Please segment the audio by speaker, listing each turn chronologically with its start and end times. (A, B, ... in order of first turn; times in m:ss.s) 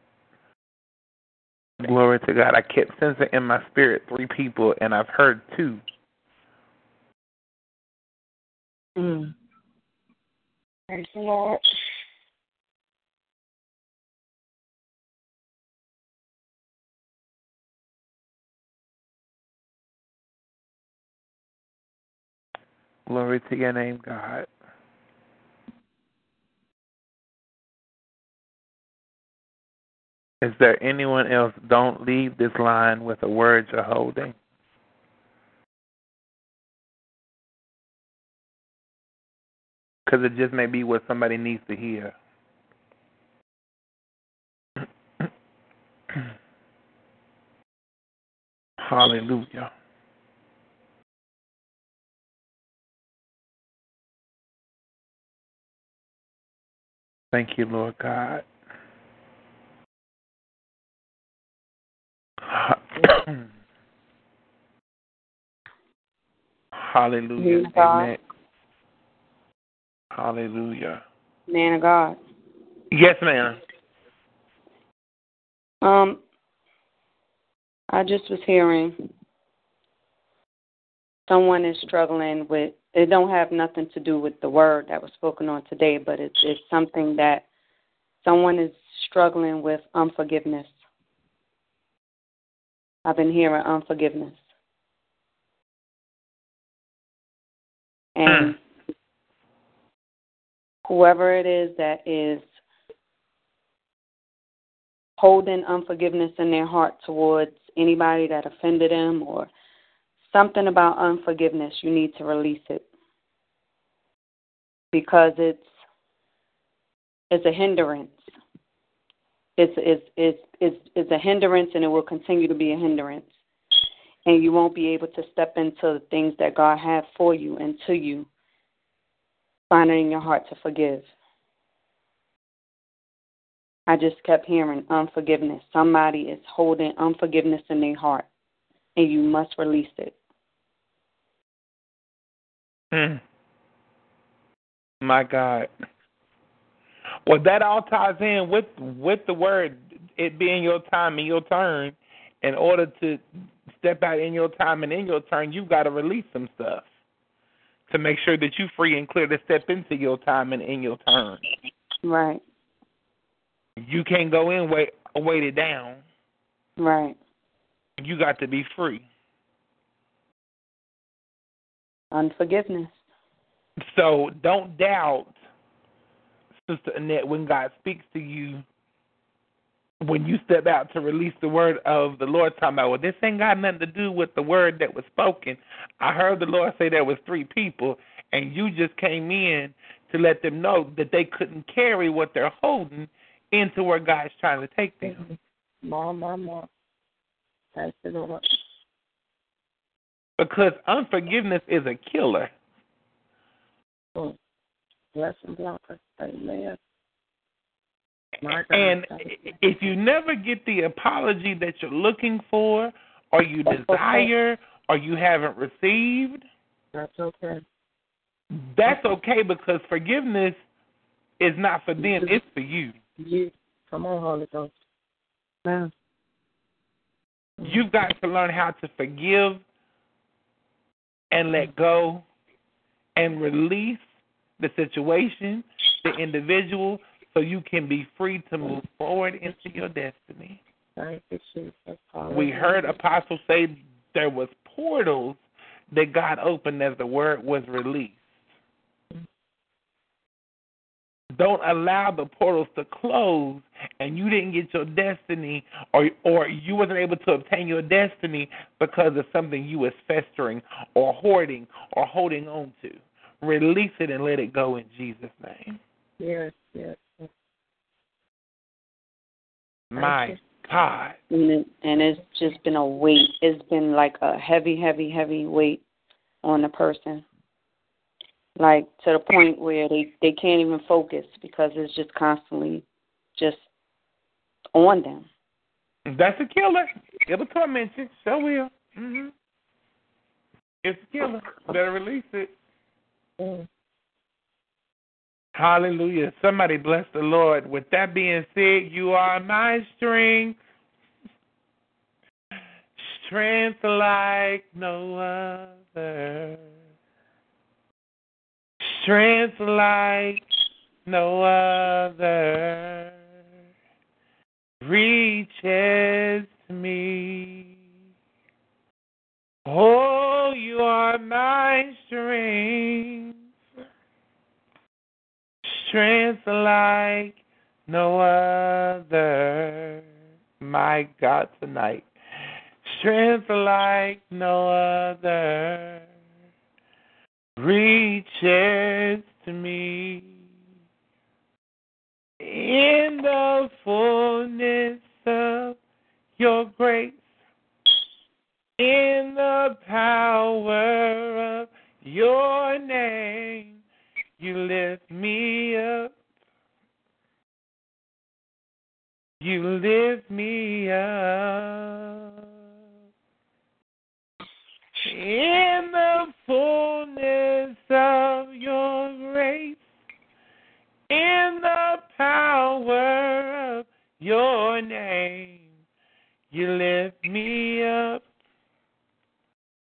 0:01.8-0:05.8 A
0:10.9-0:11.6 B
0:23.1-0:24.5 A
0:30.4-0:34.4 A
0:40.1-0:42.2 A
0:48.8-0:49.7 A
0:57.3-0:58.4 A
1:02.5-1:03.4 A
1:06.8-1:08.2 A
1:07.4-1:08.1 C
1:10.1-1:11.0 A
1:11.5-1:12.2 C
1:12.9-1:13.6 A
1:15.8-1:16.2 C
1:17.9-1:19.0 C
1:21.3-1:27.4 C
1:28.2-1:30.7 C
1:33.0-1:34.4 C
1:38.2-1:38.6 C
1:38.3-1:38.5 A
1:40.8-1:42.5 C
1:45.2-1:49.5 C
1:50.2-1:52.8 C
1:54.9-1:55.7 C
1:57.3-1:58.3 C
1:59.6-2:03.3 C
2:04.3-2:08.3 C
2:09.7-2:11.1 C
2:13.9-2:18.3 C
2:19.0-2:20.1 C
2:22.9-2:23.2 A
2:25.0-2:25.7 A
2:27.3-2:33.2 A
2:33.8-2:36.9 A
2:37.9-2:41.4 A
2:42.0-2:42.4 C
2:43.8-2:46.0 A
2:46.8-2:47.2 C
2:48.0-2:49.0 A
2:52.1-2:53.0 C
2:53.8-2:55.3 A
2:56.7-2:58.6 A
3:00.0-3:15.2 A
3:15.8-3:16.7 B
3:17.8-3:18.5 B
3:20.4-3:22.5 A
3:25.2-3:26.8 B
3:28.5-3:36.4 A
3:28.5-3:29.3 B
3:37.0-3:37.5 B
3:38.5-3:40.6 A
3:41.4-3:43.0 A
3:43.9-3:44.7 B
3:47.6-3:49.6 A
3:51.3-3:52.2 A
3:53.2-3:54.0 A
3:54.6-4:00.6 A
4:01.0-4:02.2 B
4:02.3-4:05.4 A
4:05.9-4:08.2 A
4:11.4-4:25.8 A
4:29.9-4:31.2 A
4:31.3-4:35.8 C
4:36.4-4:37.2 C
4:38.6-4:42.8 C
4:43.4-4:43.6 C
4:44.7-4:45.3 C
4:46.1-4:49.3 A
4:50.8-4:52.5 A
4:55.6-5:00.6 A
5:03.0-5:06.7 A
5:08.8-5:10.4 A
5:11.1-5:13.2 A
5:14.8-5:17.7 A
5:19.7-5:23.3 A
5:25.6-5:30.0 A
5:30.6-5:32.1 A
5:32.9-5:36.1 A
5:37.6-5:40.4 A
5:42.4-5:45.8 A
5:46.4-5:47.2 A
5:48.8-5:53.8 A
5:54.4-5:56.1 A
5:59.4-6:02.3 A
6:05.0-6:09.8 A
6:11.1-6:15.7 A
6:16.5-6:18.2 A